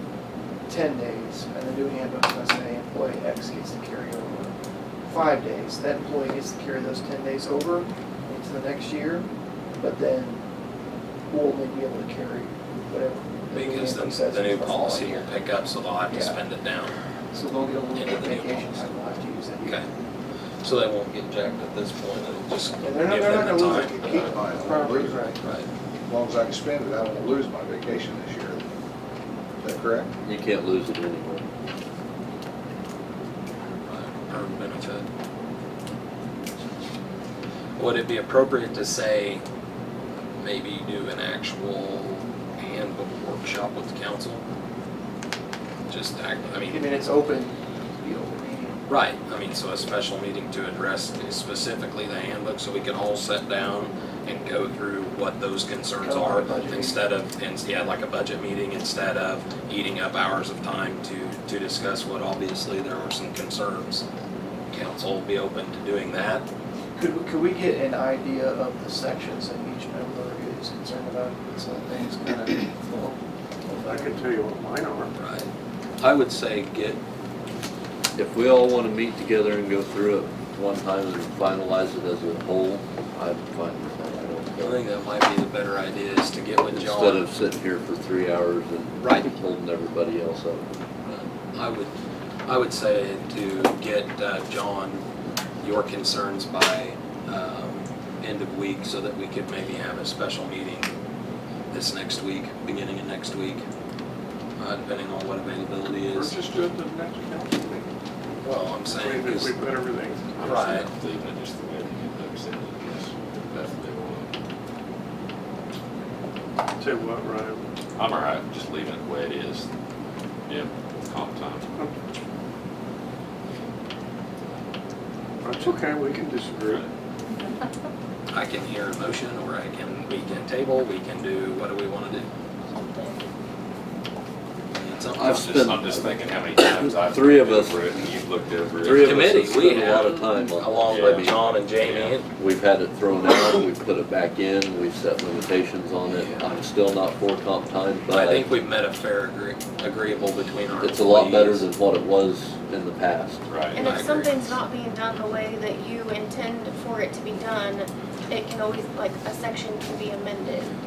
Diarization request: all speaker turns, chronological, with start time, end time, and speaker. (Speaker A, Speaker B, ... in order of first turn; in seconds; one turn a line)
Speaker A: 0.7-4.5
Speaker A: 5.1-9.3
Speaker A: 9.8-10.4
Speaker A: 11.3-15.4
Speaker B: 13.5-16.9
Speaker A: 16.1-16.4
Speaker A: 17.3-19.8
Speaker B: 17.9-19.0
Speaker B: 20.6-24.3
Speaker A: 22.8-25.4
Speaker C: 24.0-25.3
Speaker B: 25.4-25.7
Speaker C: 26.1-28.7
Speaker C: 29.6-30.1
Speaker D: 30.2-31.4
Speaker B: 33.8-35.1
Speaker B: 37.8-39.4
Speaker B: 40.4-44.4
Speaker B: 45.9-46.9
Speaker A: 46.7-48.8
Speaker B: 48.9-64.1
Speaker A: 56.0-57.0
Speaker B: 64.7-66.5
Speaker A: 67.0-74.3
Speaker E: 74.0-75.1
Speaker B: 75.2-77.0
Speaker D: 78.2-84.8
Speaker B: 84.6-87.3
Speaker D: 86.7-90.7
Speaker B: 89.0-89.3
Speaker B: 91.0-91.9
Speaker B: 92.5-95.0
Speaker B: 95.6-100.9
Speaker B: 101.7-103.6
Speaker B: 104.6-106.3
Speaker E: 106.1-107.8
Speaker B: 108.4-109.5
Speaker E: 109.0-110.1
Speaker F: 110.3-114.3
Speaker B: 110.4-110.9
Speaker E: 116.8-117.6
Speaker F: 118.0-119.7
Speaker F: 120.5-121.7
Speaker E: 125.5-126.6
Speaker B: 128.3-132.3
Speaker G: 132.7-133.2
Speaker B: 134.7-135.7
Speaker D: 135.2-136.2
Speaker F: 135.3-139.9
Speaker D: 136.9-137.9
Speaker B: 138.8-142.3
Speaker D: 138.9-141.3
Speaker F: 140.9-142.2
Speaker D: 142.3-148.5
Speaker B: 146.1-146.5
Speaker B: 148.1-151.7
Speaker D: 150.8-153.4
Speaker F: 153.5-153.8
Speaker G: 153.7-160.7
Speaker B: 153.8-154.6